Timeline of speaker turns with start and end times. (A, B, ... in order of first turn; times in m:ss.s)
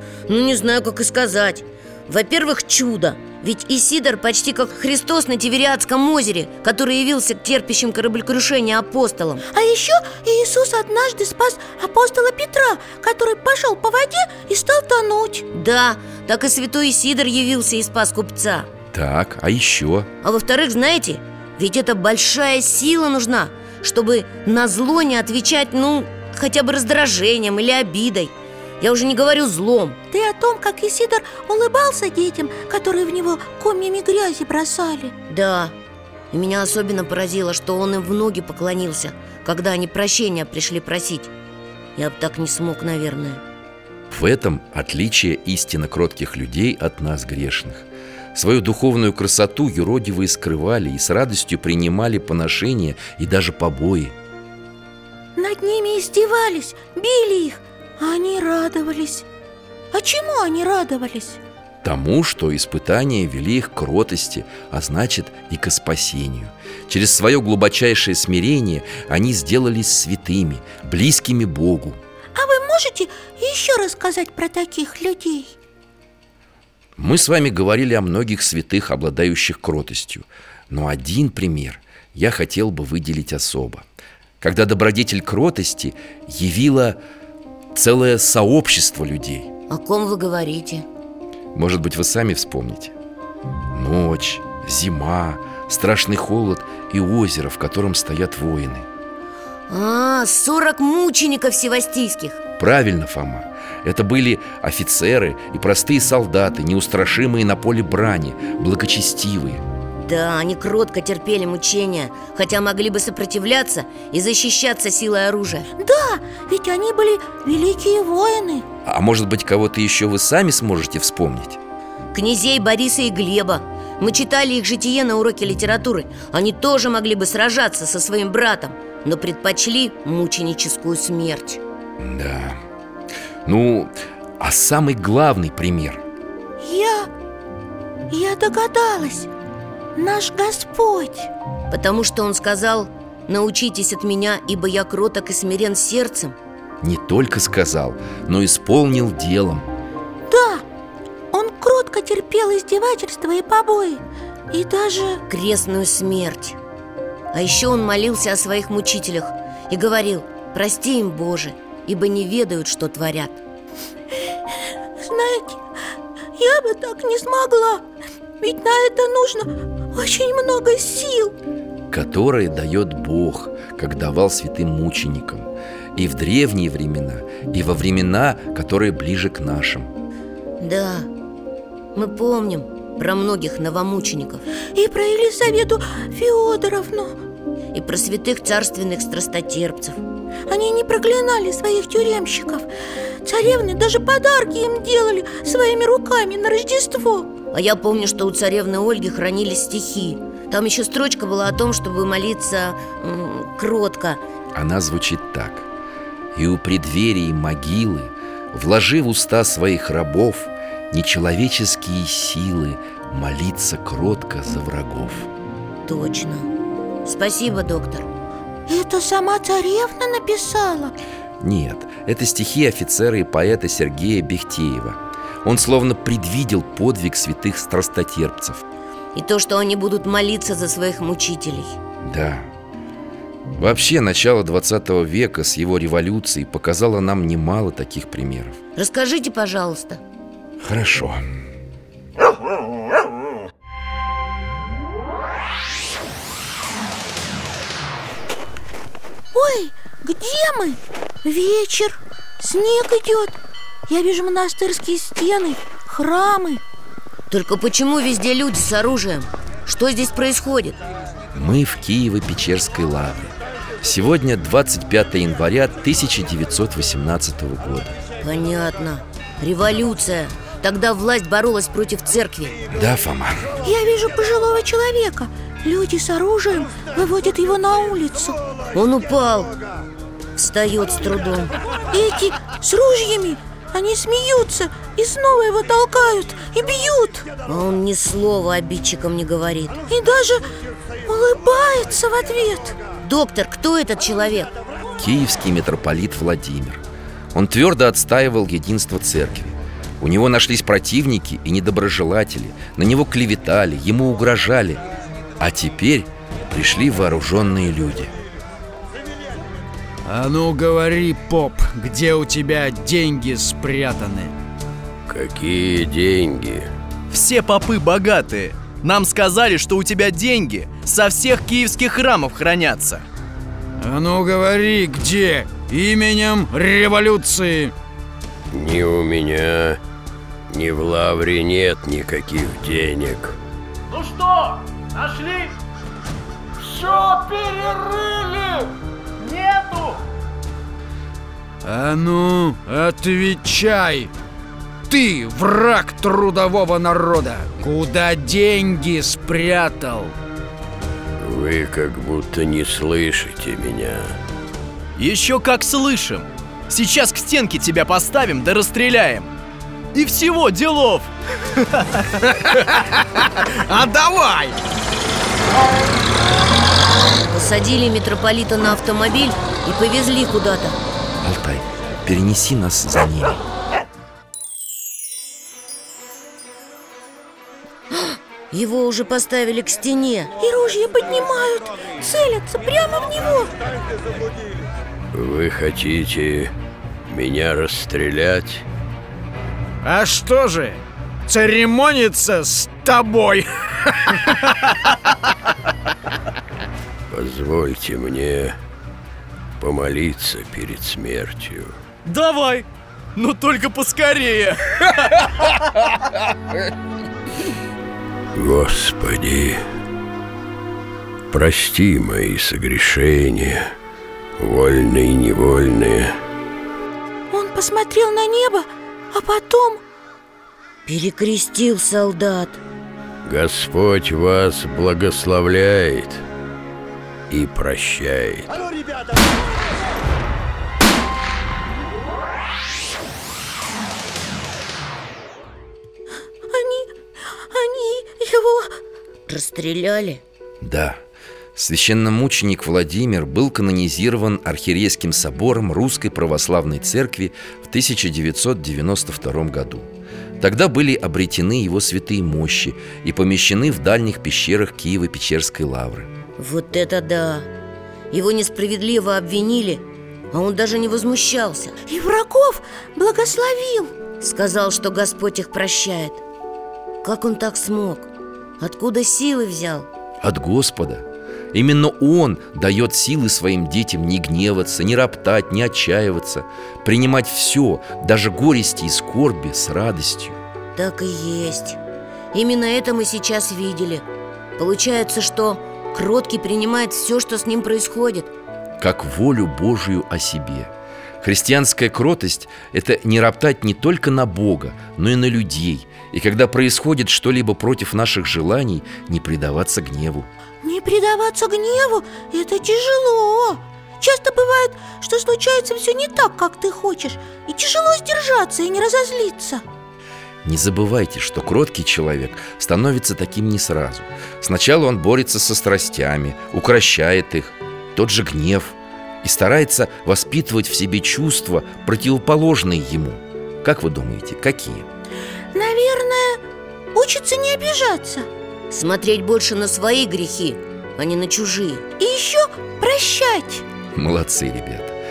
0:00.3-0:09.4 A
0:09.5-0:15.4 B
0:15.5-0:18.7 A
0:18.9-0:20.1 C
0:20.2-0:30.0 A
0:30.1-0:35.1 B
0:35.3-0:35.7 A
0:36.3-0:41.3 A
0:42.0-0:43.4 A
0:44.1-0:54.1 C
0:55.4-0:59.2 B
0:59.9-1:01.4 B
1:01.8-1:12.0 C
1:12.3-1:15.5 B
1:17.0-1:23.8 C
1:24.4-1:27.0 C
1:27.7-1:29.5 C
1:29.7-1:30.8 A
1:31.5-1:32.9 C
1:33.7-1:38.8 C
1:39.7-1:42.4 A
1:42.6-1:49.6 C
1:50.0-1:55.7 A
1:55.8-1:58.6 B
1:58.8-2:01.6 C
2:02.1-2:11.6 A
2:12.0-2:12.6 C
2:13.4-2:16.0 C
2:16.6-2:17.1 B
2:18.1-2:19.3 B
2:20.0-2:21.3 B
2:21.7-2:26.3 A
2:26.8-2:29.7 C
2:30.3-2:30.6 B
2:31.3-2:35.2 B
2:35.3-2:36.6 A
2:37.3-2:43.4 A
2:45.0-2:45.6 B
2:46.4-2:47.9 B
2:48.4-2:51.3 B
2:51.9-2:59.9 C
3:00.6-3:01.1 A
3:01.9-3:04.4 A
3:04.7-3:07.2 B
3:07.7-3:10.0 A
3:10.5-3:12.7 B
3:13.2-3:17.3 B
3:17.5-3:24.2 A
3:24.5-3:25.6 C
3:26.3-3:35.3 C
3:35.8-3:36.5 A
3:37.0-3:38.1 A
3:38.7-3:40.9 B
3:41.4-3:48.6 C
3:49.1-3:51.8 A
3:52.0-3:52.5 C
3:53.5-3:58.6 C
3:58.8-4:00.0 A
4:00.6-4:01.2 C
4:09.3-4:13.4 B
4:13.9-4:16.6 B
4:17.3-4:20.8 A
4:21.3-4:28.0 C
4:28.2-4:32.6 A
4:32.7-4:33.5 C
4:33.6-4:38.4 B
4:38.7-4:39.5 A
4:40.4-4:41.5 A
4:41.9-4:47.3 B
4:47.4-4:49.8 A
4:49.9-4:50.4 B
4:51.0-4:52.8 B
4:53.0-4:54.5 A
4:55.0-4:56.8 C
4:57.3-5:04.8 C
5:05.4-5:08.1 C
5:10.0-5:14.3 D
5:15.1-5:16.7 E
5:17.1-5:23.0 F
5:23.8-5:27.7 D
5:28.5-5:29.8 E
5:30.5-5:33.4 E
5:33.9-5:35.5 G
5:36.8-5:37.7 G
5:39.2-5:40.0 G
5:41.6-5:44.1 D
5:44.9-5:50.1 D
5:51.2-5:54.2 E
5:55.0-5:59.3 F
5:59.9-6:01.1 F
6:02.2-6:04.6 D
6:07.3-6:10.8 A
6:11.2-6:13.4 C
6:17.9-6:20.3 A
6:20.4-6:23.5 B
6:25.1-6:26.5 E
6:27.1-6:28.6 E
6:29.8-6:34.7 D
6:37.1-6:38.6 E
6:39.6-6:41.7 E
6:42.0-6:44.6 F
6:48.3-6:49.6 E
6:51.3-6:53.7 E
6:54.4-6:56.1 E
6:57.3-6:59.8 B
7:00.8-7:02.6 A
7:03.2-7:06.2 E
7:07.3-7:08.5 E
7:16.5-7:16.9 B
7:17.5-7:18.8 B
7:19.3-7:20.2 A
7:20.6-7:21.0 C
7:21.6-7:29.8 C
7:30.4-7:36.1 C
7:36.4-7:37.5 A
7:38.1-7:41.7 A
7:41.9-7:43.9 B
7:44.2-7:46.2 A
7:47.0-7:49.9 A
7:50.2-8:00.4 C
8:00.7-8:01.8 A
8:02.3-8:04.0 A
8:04.6-8:08.3 A
8:08.8-8:20.3 C
8:20.6-8:29.6 B
8:30.4-8:44.8 C
8:45.5-8:46.4 B
8:46.9-8:48.3 B
8:48.7-8:51.8 A
8:52.0-8:53.6 B
8:53.9-8:55.0 C